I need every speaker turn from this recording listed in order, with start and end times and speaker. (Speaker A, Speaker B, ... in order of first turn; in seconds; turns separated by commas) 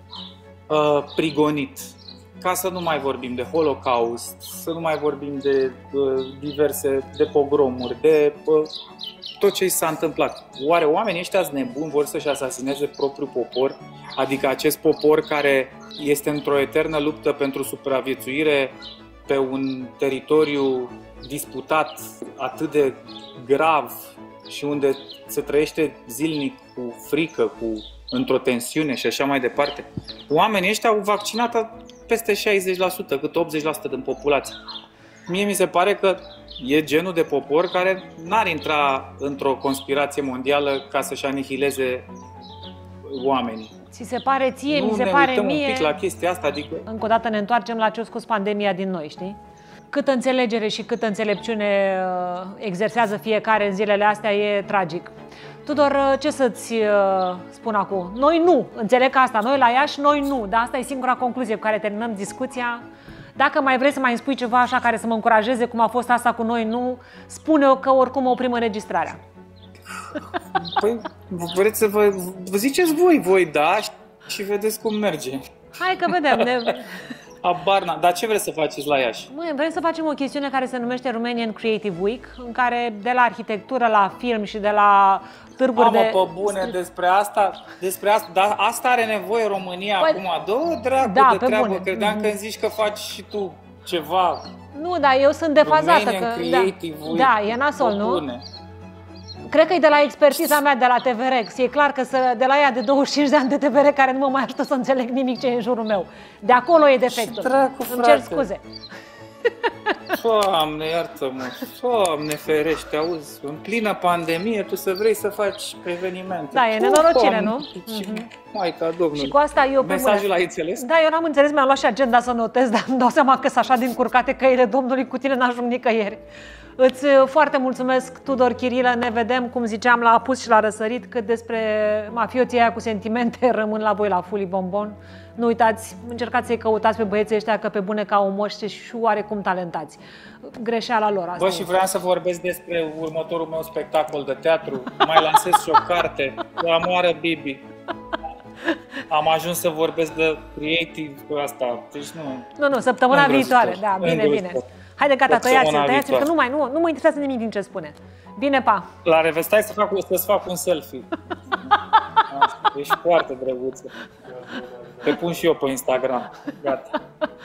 Speaker A: 0.7-8.7, Speaker A: 9.4-18.7, Speaker A: 19.3-34.6, Speaker A: 35.3-42.1, Speaker A: 43.0-43.8, Speaker B: 43.9-46.0, Speaker A: 44.7-46.9, Speaker B: 46.9-49.4, Speaker B: 49.9-55.1, Speaker B: 55.6-62.8, Speaker B: 63.4-69.2, Speaker A: 70.5-75.4, Speaker B: 75.8-76.9, Speaker A: 76.1-76.8, Speaker A: 77.4-79.3, Speaker B: 79.3-86.8, Speaker A: 85.8-94.5, Speaker B: 91.0-92.3, Speaker B: 94.7-98.2, Speaker A: 95.6-98.5, Speaker B: 99.5-108.6, Speaker A: 107.1-108.5, Speaker B: 109.5-110.1, Speaker A: 110.1-120.9, Speaker B: 116.5-118.3, Speaker B: 119.2-126.2, Speaker B: 126.8-141.8, Speaker A: 141.4-147.6, Speaker B: 145.3-145.6, Speaker A: 149.1-152.5, Speaker B: 152.6-158.9, Speaker A: 153.1-154.6, Speaker A: 155.3-156.3, Speaker A: 159.0-161.7, Speaker B: 161.7-162.2, Speaker A: 162.2-167.0